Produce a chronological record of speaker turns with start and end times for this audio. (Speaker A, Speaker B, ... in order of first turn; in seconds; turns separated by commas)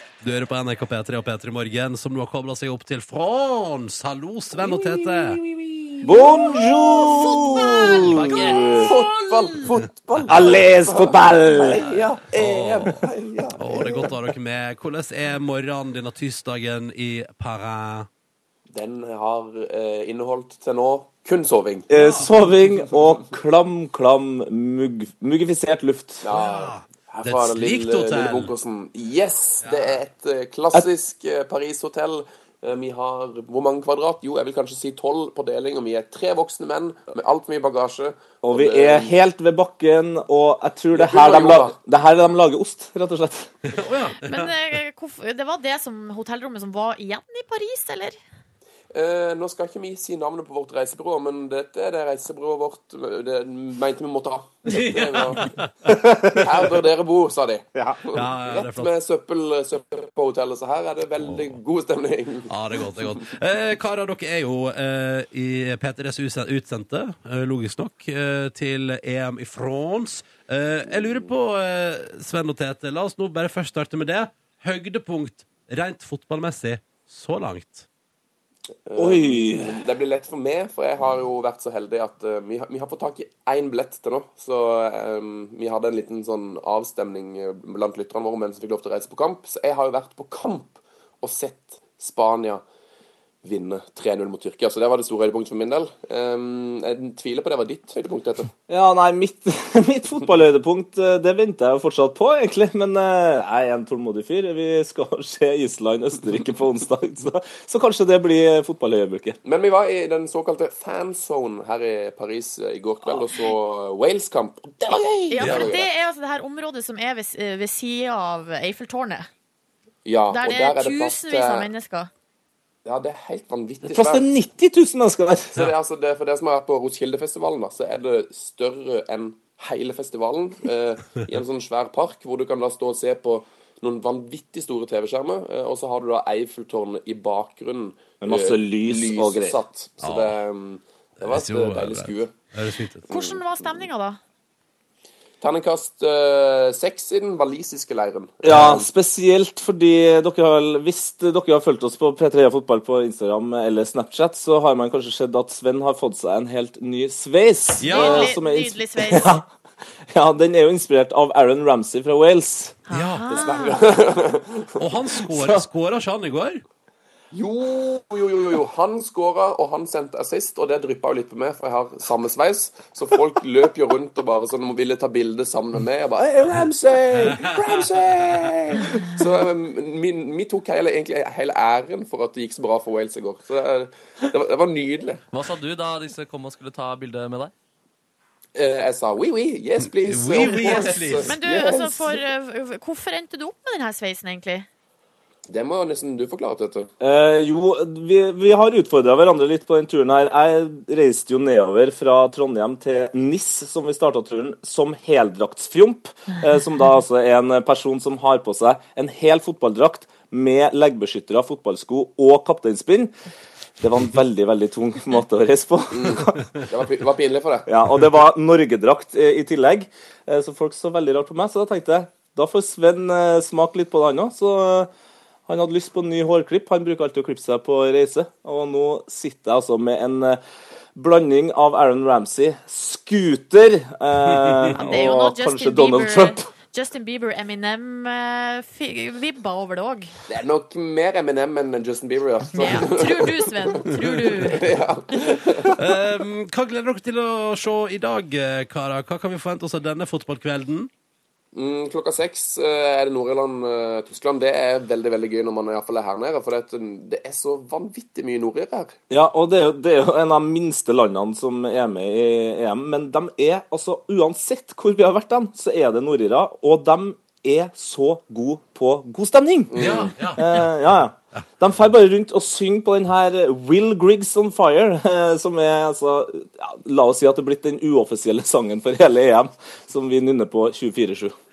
Speaker A: 0.2-5.4, Speaker B: 4.8-8.9, Speaker C: 6.2-7.0, Speaker D: 7.3-7.9, Speaker A: 7.7-8.9, Speaker C: 8.6-14.3, Speaker A: 10.2-10.6, Speaker B: 10.3-11.9, Speaker A: 12.3-18.1, Speaker C: 18.7-21.9, Speaker B: 21.9-26.3, Speaker A: 22.0-22.3, Speaker C: 26.2-39.1, Speaker A: 26.3-28.5, Speaker A: 29.6-30.0, Speaker B: 38.4-43.5, Speaker C: 40.9-41.8, Speaker A: 43.7-44.5, Speaker D: 44.2-48.2, Speaker C: 48.9-55.5, Speaker A: 54.7-56.0, Speaker C: 56.2-62.5, Speaker A: 58.0-58.9, Speaker A: 62.5-77.9, Speaker C: 78.9-92.6, Speaker B: 79.0-79.8, Speaker C: 93.4-98.5, Speaker B: 98.7-109.4, Speaker C: 109.4-115.9, Speaker D: 115.3-119.3, Speaker A: 115.4-115.7, Speaker C: 120.0-121.7, Speaker D: 120.3-122.1, Speaker C: 122.8-124.3, Speaker B: 123.9-125.6, Speaker C: 125.5-142.3, Speaker B: 138.2-139.6, Speaker A: 140.0-140.4, Speaker A: 141.2-143.1, Speaker D: 143.1-144.2, Speaker C: 143.1-143.3, Speaker C: 145.4-148.9, Speaker B: 148.4-159.5, Speaker A: 157.8-158.4, Speaker D: 157.8-159.4, Speaker B: 160.1-162.8, Speaker D: 162.9-163.8, Speaker A: 162.9-163.5, Speaker C: 163.3-164.8, Speaker A: 164.8-166.6, Speaker B: 165.3-165.6, Speaker C: 167.3-185.2, Speaker A: 177.2-178.5, Speaker E: 185.3-187.5, Speaker C: 188.6-192.2, Speaker A: 190.0-191.3, Speaker D: 190.6-194.7, Speaker C: 195.5-196.9, Speaker B: 197.0-213.1, Speaker B: 213.8-216.4, Speaker C: 215.9-217.7, Speaker B: 217.7-224.9, Speaker B: 225.5-230.4, Speaker B: 230.9-236.4, Speaker D: 234.7-240.1, Speaker C: 240.3-245.8, Speaker D: 242.6-244.7, Speaker A: 244.0-244.4, Speaker A: 245.7-250.9, Speaker C: 251.5-258.9, Speaker B: 259.1-281.4, Speaker C: 269.7-270.1, Speaker A: 269.8-270.7